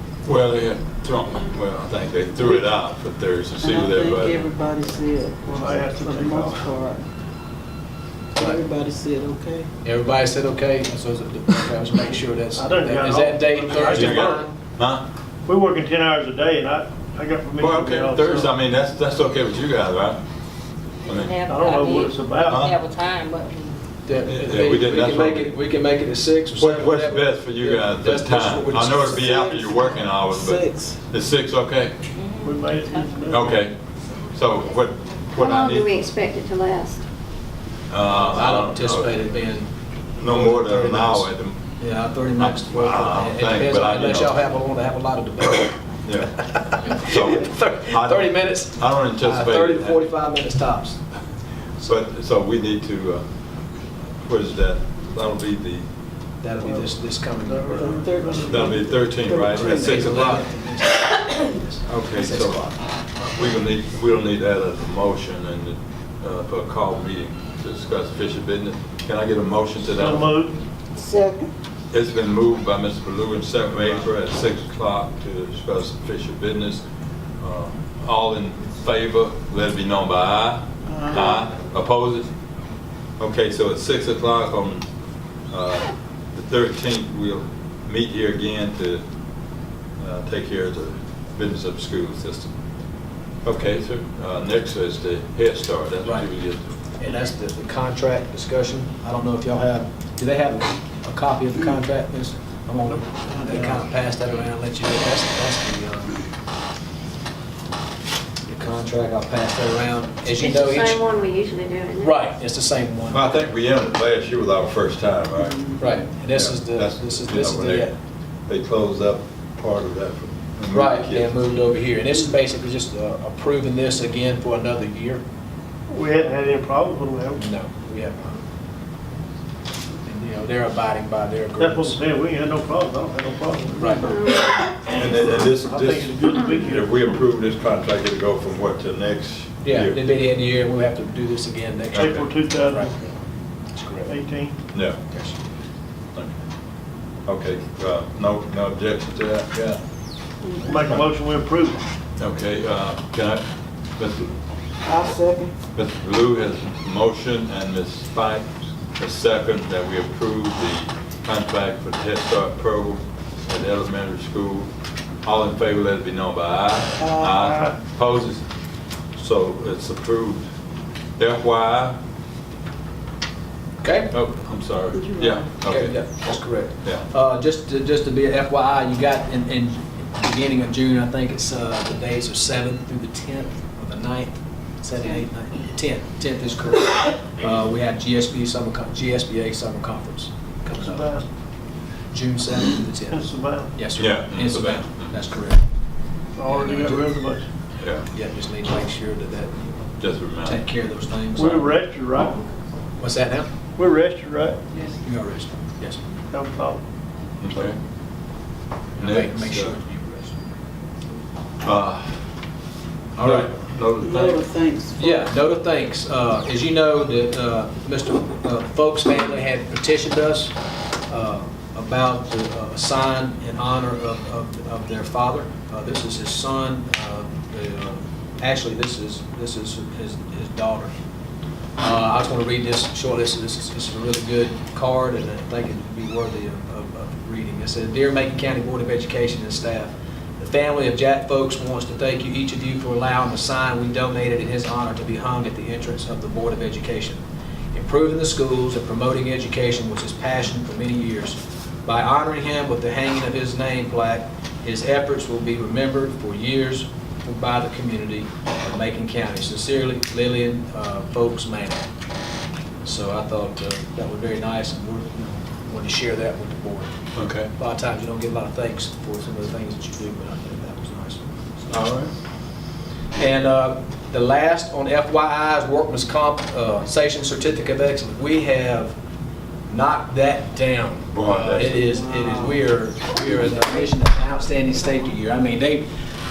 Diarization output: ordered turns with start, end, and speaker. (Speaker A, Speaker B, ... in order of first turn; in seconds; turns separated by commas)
Speaker A: 0.2-4.5, Speaker B: 3.6-7.0, Speaker C: 5.5-6.7, Speaker B: 8.3-9.7, Speaker D: 9.8-14.5, Speaker C: 12.6-14.5, Speaker A: 13.8-15.1, Speaker C: 15.5-18.5, Speaker A: 17.6-20.2, Speaker A: 21.1-21.4, Speaker E: 21.1-23.8, Speaker C: 21.5-22.7, Speaker A: 22.4-22.8, Speaker D: 24.1-30.0, Speaker A: 24.3-25.5, Speaker A: 26.6-32.0, Speaker B: 30.3-31.0, Speaker E: 32.1-33.2, Speaker C: 32.4-33.6, Speaker A: 33.3-33.8, Speaker A: 34.4-35.9, Speaker F: 35.4-37.0, Speaker A: 37.9-39.3, Speaker D: 38.1-45.8, Speaker A: 40.2-41.6, Speaker A: 42.4-44.4, Speaker A: 46.0-46.3, Speaker D: 46.4-51.0, Speaker A: 47.0-50.1, Speaker D: 51.8-52.0, Speaker A: 51.8-53.2, Speaker A: 54.2-55.9, Speaker D: 56.4-58.1, Speaker C: 56.6-56.9, Speaker C: 57.5-58.8, Speaker B: 57.8-60.4, Speaker A: 58.5-60.4, Speaker D: 59.2-62.8, Speaker A: 61.9-70.3, Speaker C: 69.9-70.6, Speaker B: 71.0-71.5, Speaker A: 71.9-76.8, Speaker A: 77.4-82.3, Speaker B: 80.9-81.3, Speaker A: 83.2-84.9, Speaker A: 85.5-89.0, Speaker A: 90.0-92.5, Speaker A: 93.4-96.7, Speaker D: 97.0-106.2, Speaker D: 108.5-111.0, Speaker F: 110.4-112.1, Speaker D: 112.0-113.3, Speaker A: 113.1-117.9, Speaker D: 115.8-118.0, Speaker A: 118.5-121.3, Speaker D: 120.7-125.2, Speaker C: 125.9-127.4, Speaker D: 127.4-128.4, Speaker D: 130.0-132.0, Speaker C: 131.6-134.4, Speaker D: 133.8-134.1, Speaker A: 134.9-140.0, Speaker C: 135.0-137.2, Speaker D: 139.6-143.1, Speaker A: 141.9-142.2, Speaker C: 141.9-142.9, Speaker D: 143.7-144.2, Speaker C: 144.1-144.6, Speaker A: 144.7-145.0, Speaker D: 145.1-145.4, Speaker A: 147.3-149.8, Speaker C: 150.6-151.8, Speaker A: 152.2-153.4, Speaker A: 154.0-154.4, Speaker B: 154.8-155.5, Speaker A: 155.8-164.7, Speaker A: 165.2-168.4, Speaker B: 167.0-167.5, Speaker C: 167.4-167.8, Speaker A: 169.2-170.4, Speaker A: 171.2-172.0, Speaker D: 173.8-174.1, Speaker A: 174.1-176.2, Speaker B: 174.9-175.5, Speaker D: 175.6-191.1, Speaker A: 176.8-177.1, Speaker C: 190.8-191.2, Speaker D: 192.1-193.2, Speaker C: 193.1-193.7, Speaker D: 193.7-195.6, Speaker A: 194.0-195.1, Speaker C: 196.4-197.4, Speaker D: 196.4-197.1, Speaker A: 197.8-198.1, Speaker D: 198.1-201.7, Speaker A: 200.0-200.6, Speaker C: 201.4-202.4, Speaker D: 203.0-203.5, Speaker C: 203.8-204.6, Speaker D: 205.0-206.0, Speaker C: 206.3-206.8, Speaker A: 207.4-207.8, Speaker D: 209.0-210.3, Speaker A: 209.0-209.8, Speaker A: 211.6-212.1, Speaker A: 213.2-214.4, Speaker D: 213.2-213.5, Speaker B: 214.0-215.2, Speaker D: 215.0-220.6, Speaker D: 221.1-230.9, Speaker D: 231.8-247.2, Speaker D: 247.7-261.8, Speaker D: 262.8-266.9, Speaker A: 267.1-267.5, Speaker D: 267.5-272.0, Speaker A: 271.7-272.1, Speaker D: 273.2-279.0, Speaker D: 279.7-285.9, Speaker A: 281.1-282.0, Speaker B: 281.7-282.6